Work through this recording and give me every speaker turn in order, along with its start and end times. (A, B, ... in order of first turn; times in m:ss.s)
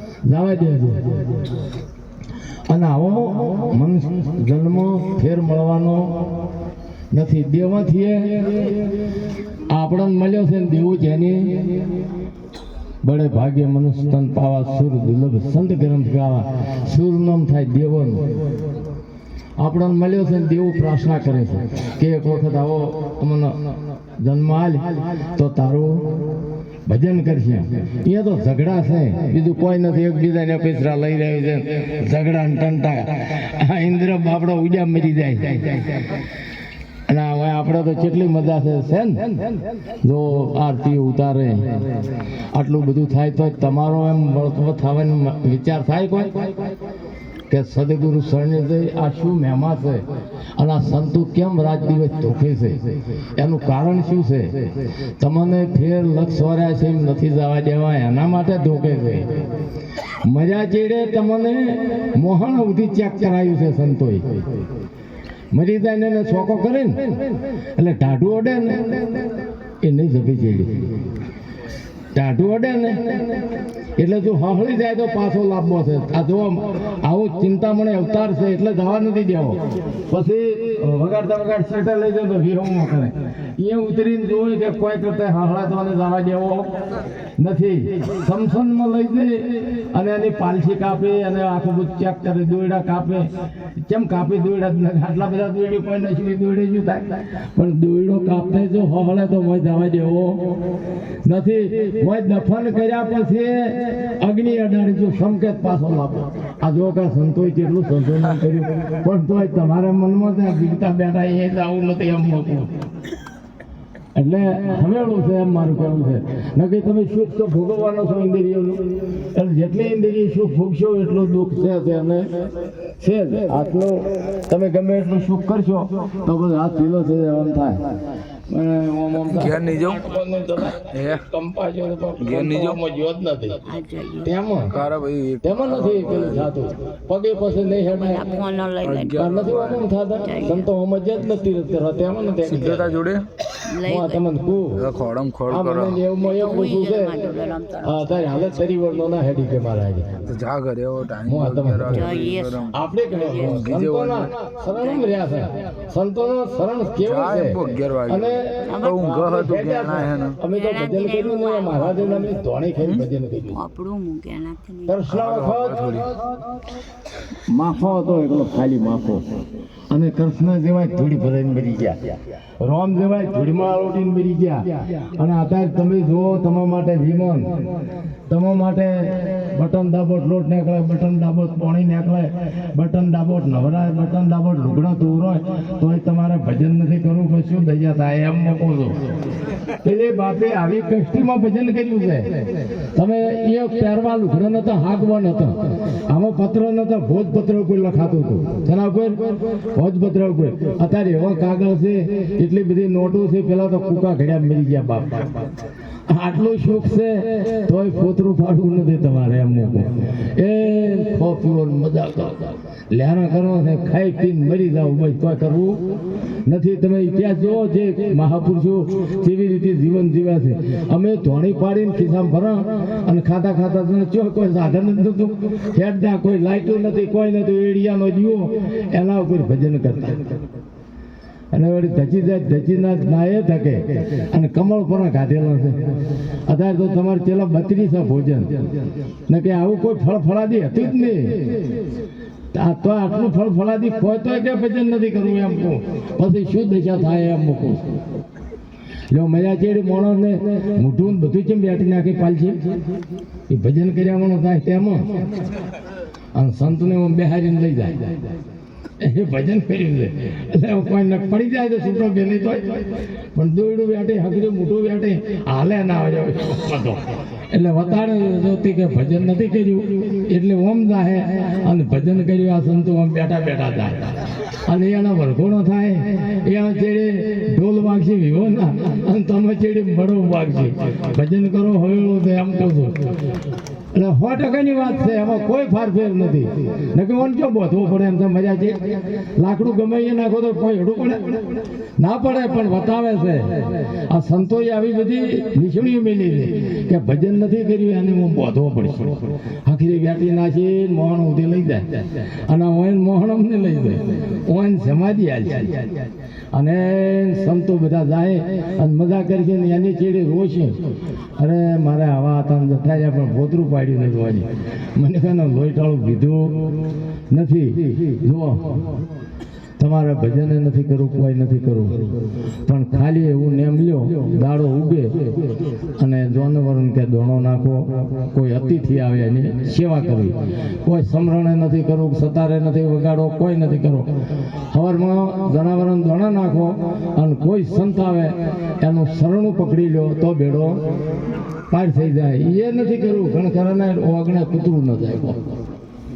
0:00.3-0:01.1 A
0:02.7-0:06.1 A
0:07.1-0:08.6 A
0:09.7-0:11.5 A
0:13.0-0:18.3 A
0:19.6-0:23.6 A
0:24.2-0:26.0 A
0:26.9-0:35.9 A
0:37.1-0:39.4 A
0:40.0-0:41.8 A
0:42.5-0:46.5 A
0:47.5-0:50.0 A
0:50.6-0:52.8 A
0:53.4-0:54.6 A
0:55.2-0:59.3 A
1:00.2-1:04.2 A
1:05.5-1:07.2 A
1:07.8-1:09.0 A
1:09.8-1:10.8 A
1:12.1-1:13.3 A
1:14.0-1:19.6 A
1:20.1-1:26.7 A
1:27.4-1:33.3 A
1:33.8-1:40.5 A
1:41.2-1:52.7 A
1:54.2-2:02.3 A
2:03.0-2:07.8 A
2:08.5-2:13.6 A
2:09.3-2:10.0 B
2:10.9-2:11.2 B
2:12.2-2:12.8 B
2:13.6-2:14.3 C
2:14.2-2:14.7 A
2:14.7-2:16.5 B
2:15.4-2:18.3 A
2:17.9-2:19.2 C
2:18.8-2:19.9 B
2:19.2-2:23.0 A
2:20.2-2:20.7 C
2:22.4-2:23.3 B
2:23.7-2:24.2 C
2:23.8-2:24.8 A
2:24.8-2:26.0 B
2:25.5-2:27.2 A
2:26.2-2:28.4 C
2:27.8-2:30.2 A
2:30.2-2:34.3 B
2:31.3-2:32.0 A
2:31.9-2:33.6 C
2:32.7-2:43.6 A
2:34.7-2:35.2 C
2:37.0-2:40.4 B
2:38.6-2:39.1 C
2:40.5-2:42.3 C
2:43.5-2:45.0 C
2:44.9-2:46.0 A
2:45.1-2:46.1 B
2:47.5-2:49.2 A
2:49.9-2:52.0 A
2:52.6-2:57.5 A
2:58.3-3:08.9 A
3:09.8-3:12.3 A
3:13.0-3:25.3 A
3:26.1-3:35.8 A
3:36.5-3:50.2 A
3:51.5-3:55.8 A
3:56.5-3:58.5 A
3:59.3-4:01.4 A
4:02.5-4:07.8 A
4:09.1-4:12.7 A
4:13.5-4:15.0 A
4:16.4-4:18.1 A
4:19.0-4:34.1 A
4:34.7-4:42.9 A
4:43.9-4:51.2 A
4:52.0-5:05.9 A
5:06.5-5:10.8 A
5:11.4-5:16.5 A
5:17.3-5:18.7 A
5:19.8-5:22.1 A
5:22.7-5:25.2 A
5:26.0-5:34.1 A
5:34.7-5:40.8 A
5:41.7-5:45.5 A